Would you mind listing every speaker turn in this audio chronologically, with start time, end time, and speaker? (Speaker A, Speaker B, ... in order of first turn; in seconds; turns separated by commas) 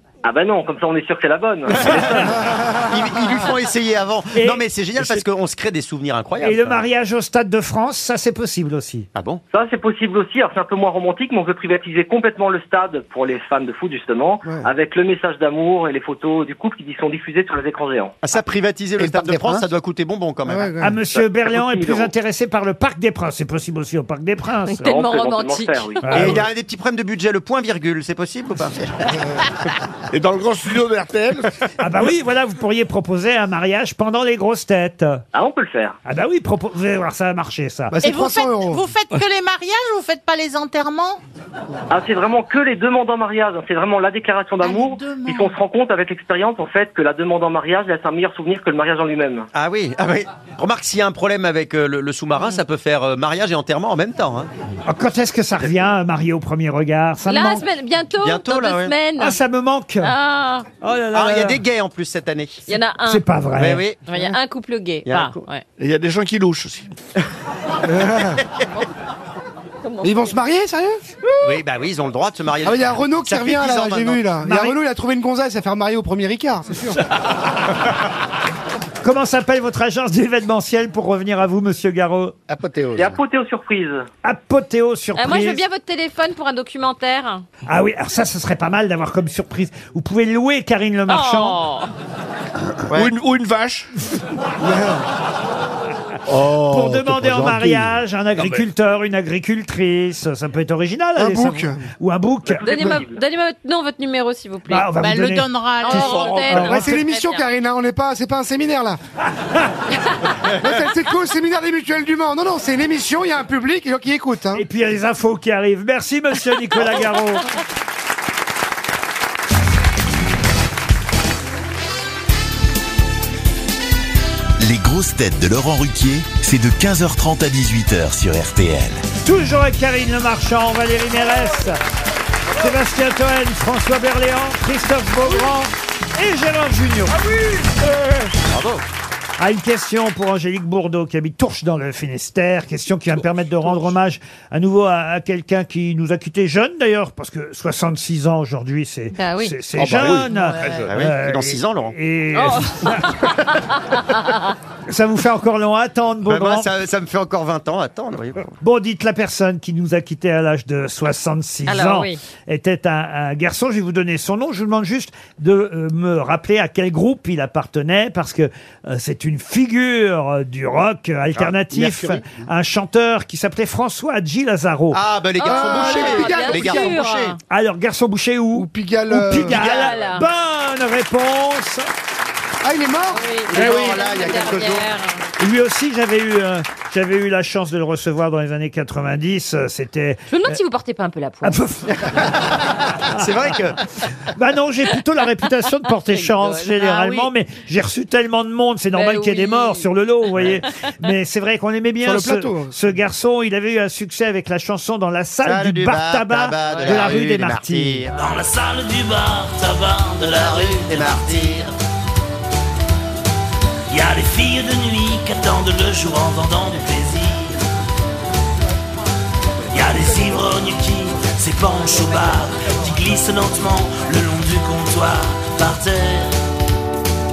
Speaker A: 0.2-2.4, Speaker B: 1.7-2.4, Speaker B: 2.9-6.8, Speaker C: 4.3-5.2, Speaker C: 6.4-9.1, Speaker B: 9.2-9.4, Speaker A: 9.5-18.2, Speaker B: 18.2-20.7, Speaker D: 19.0-19.6, Speaker E: 20.5-21.0, Speaker C: 20.8-24.9, Speaker A: 21.5-22.1, Speaker F: 24.7-26.3, Speaker A: 24.8-26.2, Speaker C: 26.1-26.4, Speaker B: 26.1-29.1, Speaker D: 30.1-31.5, Speaker C: 31.8-35.2, Speaker A: 35.3-36.0, Speaker C: 36.0-38.0, Speaker E: 37.9-38.9, Speaker G: 38.0-41.2, Speaker A: 41.9-49.5, Speaker G: 44.6-45.6, Speaker B: 49.5-54.5, Speaker C: 54.9-57.7, Speaker F: 57.2-59.4, Speaker B: 58.2-59.0, Speaker C: 59.2-60.1, Speaker F: 60.0-60.7, Speaker C: 60.8-61.6, Speaker B: 61.1-62.6, Speaker F: 62.7-63.2, Speaker C: 63.1-63.8, Speaker B: 63.6-64.0, Speaker F: 64.1-65.6, Speaker B: 65.0-65.4, Speaker D: 65.8-66.9, Speaker E: 67.8-68.4, Speaker F: 69.8-70.2, Speaker E: 70.0-71.0, Speaker B: 71.4-74.2, Speaker E: 72.6-77.0, Speaker C: 74.4-74.8, Speaker C: 79.0-82.3, Speaker H: 82.5-83.2, Speaker A: 83.0-84.1, Speaker C: 84.2-85.6, Speaker F: 85.2-87.5, Speaker C: 87.7-91.6, Speaker F: 91.1-91.9, Speaker D: 92.9-93.9, Speaker E: 94.6-95.0, Speaker H: 96.3-97.9, Speaker D: 96.5-97.7, Speaker C: 96.7-103.0, Speaker D: 98.4-98.7, Speaker E: 101.2-101.8, Speaker A: 102.5-103.2, Speaker F: 102.6-104.9, Speaker C: 104.7-107.0, Speaker G: 105.0-106.8, Speaker F: 105.8-107.5, Speaker E: 106.6-109.0, Speaker E: 110.5-114.6, Speaker C: 114.5-117.5, Speaker I: 124.6-129.0, Speaker C: 129.2-131.8, Speaker C: 132.6-137.2, Speaker B: 138.5-138.8, Speaker C: 139.4-153.2, Speaker F: 149.1-149.6, Speaker D: 149.8-150.9, Speaker G: 150.3-150.8, Speaker B: 150.8-151.9, Speaker F: 152.3-153.3, Speaker F: 153.9-154.4, Speaker C: 154.9-156.7, Speaker B: 156.3-158.5, Speaker C: 158.6-175.0, Speaker F: 161.7-162.2, Speaker H: 171.7-172.4, Speaker B: 174.9-177.4, Speaker F: 175.4-177.4, Speaker E: 175.4-177.0, Speaker C: 177.5-181.9, Speaker E: 178.6-179.6, Speaker B: 179.5-180.0, Speaker F: 179.6-180.3, Speaker E: 182.6-184.5, Speaker F: 183.1-185.2, Speaker B: 183.5-184.9, Speaker C: 185.4-190.6, Speaker F: 190.3-191.6, Speaker C: 191.4-191.9, Speaker B: 193.1-193.8, Speaker C: 193.2-193.5, Speaker C: 194.3-208.1, Speaker F: 196.1-197.3, Speaker F: 198.9-199.9, Speaker E: 202.0-202.8, Speaker B: 205.4-208.1, Speaker J: 208.1-211.7, Speaker B: 210.2-211.7, Speaker J: 213.9-217.6, Speaker J: 219.7-226.4